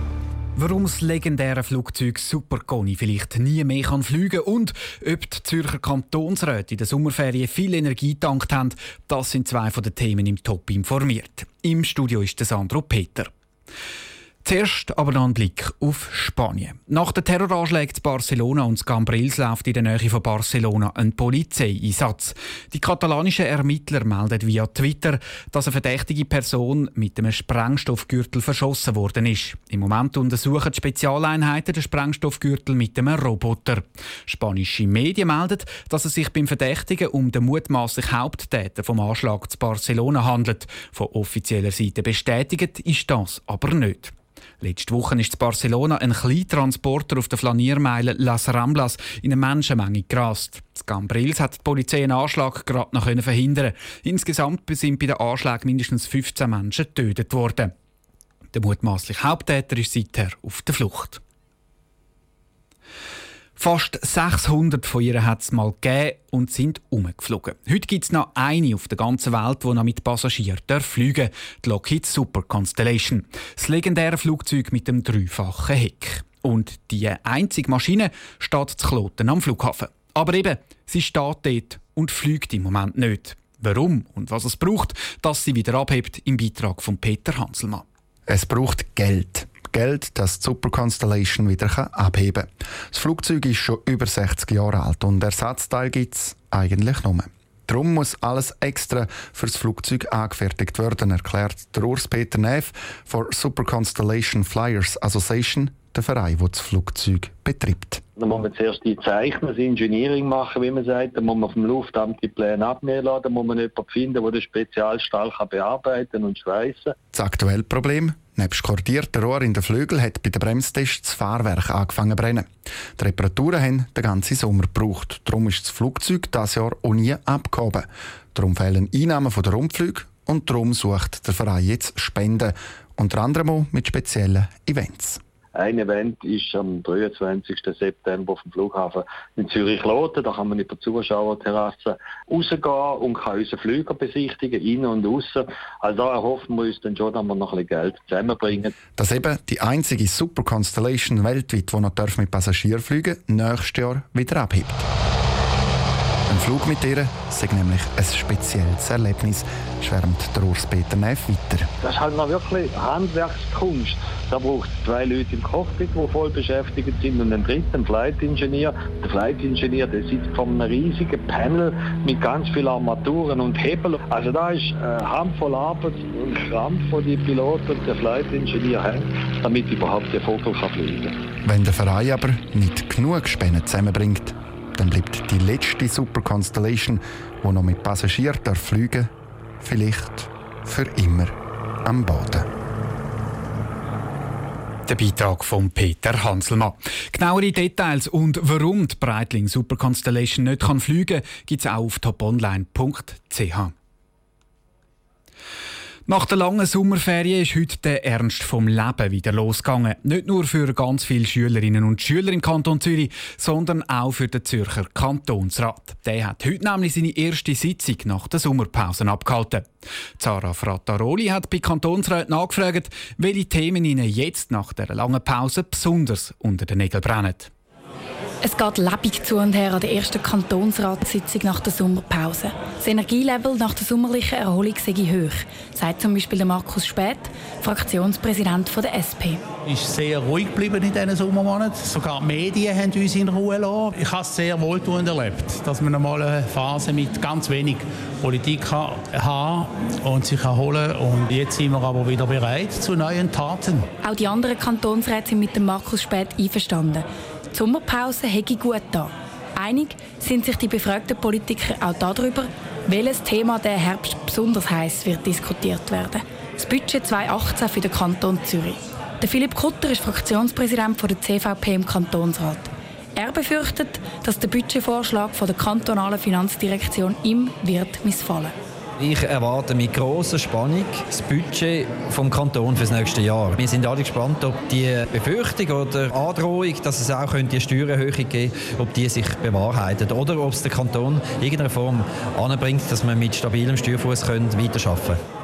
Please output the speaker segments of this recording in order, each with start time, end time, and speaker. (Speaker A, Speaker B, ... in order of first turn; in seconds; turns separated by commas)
Speaker A: 0.6-13.3, Speaker A: 14.4-57.7, Speaker A: 58.5-61.2, Speaker A: 63.6-87.8, Speaker B: 88.3-108.0, Speaker C: 108.2-116.9, Speaker B: 117.1-135.2, Speaker C: 135.6-148.8, Speaker B: 149.0-154.8, Speaker B: 156.3-161.7, Speaker C: 161.8-181.1, Speaker B: 181.4-192.5, Speaker A: 194.9-203.7, Speaker A: 206.1-219.7, Speaker A: 220.2-227.5, Speaker D: 228.4-239.4, Speaker E: 239.7-253.9, Speaker D: 254.0-278.5, Speaker F: 279.0-295.2